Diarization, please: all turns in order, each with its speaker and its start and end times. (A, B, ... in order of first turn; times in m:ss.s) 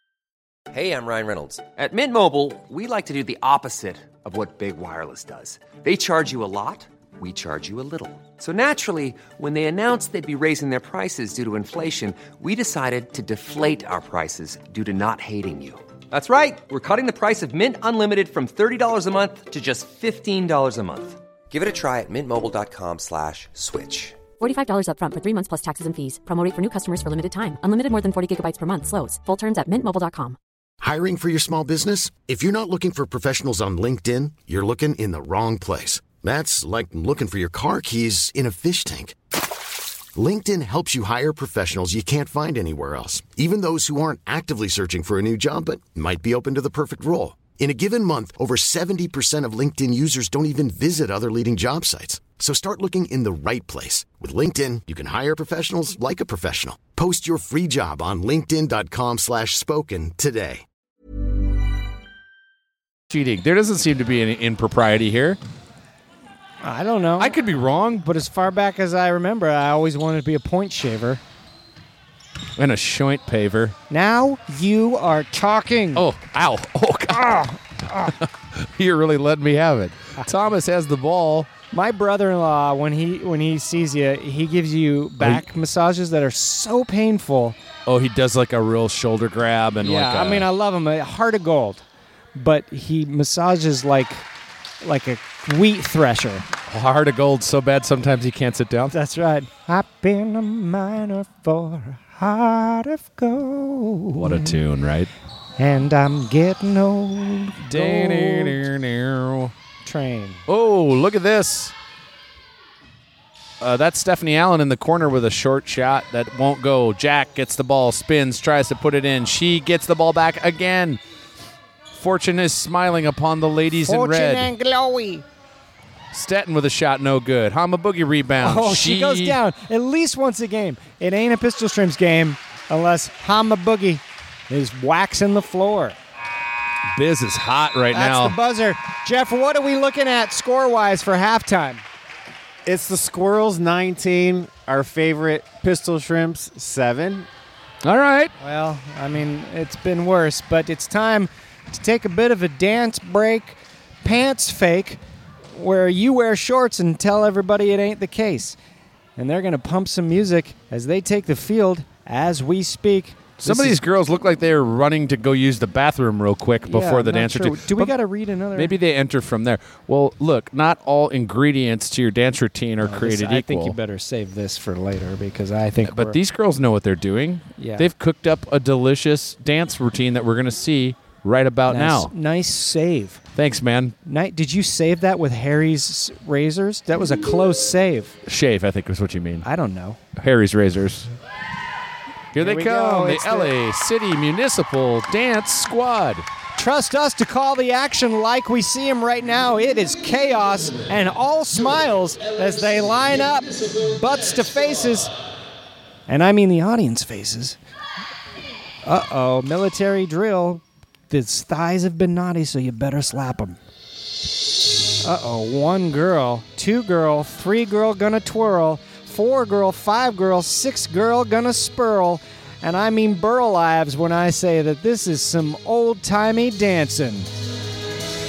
0:00.7-0:24.2 A
0:24.4-0:30.4 B
0:30.8-0:39.1 C
0:40.1-1:00.6 C
1:03.1-1:05.4 D
1:06.6-1:07.4 E
1:07.2-1:08.0 D
1:08.0-1:11.2 E
1:12.6-1:13.8 D
1:13.9-1:16.0 E
1:16.0-1:21.5 D
1:17.1-1:18.1 E
1:21.7-1:27.6 E
1:25.2-1:25.4 D
1:27.8-1:30.5 D
1:29.8-1:31.8 E
1:32.3-1:34.2 E
1:34.8-1:36.5 E
1:36.7-1:38.9 D
1:38.9-1:44.6 E
1:44.2-1:45.1 D
1:45.6-1:48.6 E
1:47.6-1:49.5 D
1:49.8-1:50.4 E
1:50.5-1:51.7 D
1:53.6-2:01.0 D
2:01.9-2:04.5 D
2:03.8-2:05.2 E
2:06.1-2:09.4 D
2:08.4-2:16.0 E
2:16.9-2:18.3 D
2:17.9-2:21.8 E
2:22.6-2:27.3 F
2:27.8-2:28.3 D
2:28.4-2:35.0 E
2:35.5-2:38.6 E
2:39.2-2:43.8 E
2:43.4-2:47.9 D
2:46.7-2:48.7 E
2:48.5-2:53.8 D
2:52.8-2:56.2 E
2:55.8-3:02.1 D
2:57.6-2:57.9 E
3:01.7-3:03.2 E
3:03.3-3:03.9 D
3:04.0-3:08.2 E
3:08.2-3:09.4 D
3:09.4-3:10.0 E
3:10.2-3:11.1 D
3:12.3-3:16.2 D
3:12.4-3:13.5 E
3:16.6-3:25.1 E
3:26.1-3:27.6 E
3:28.8-3:33.6 E
3:35.0-3:47.3 E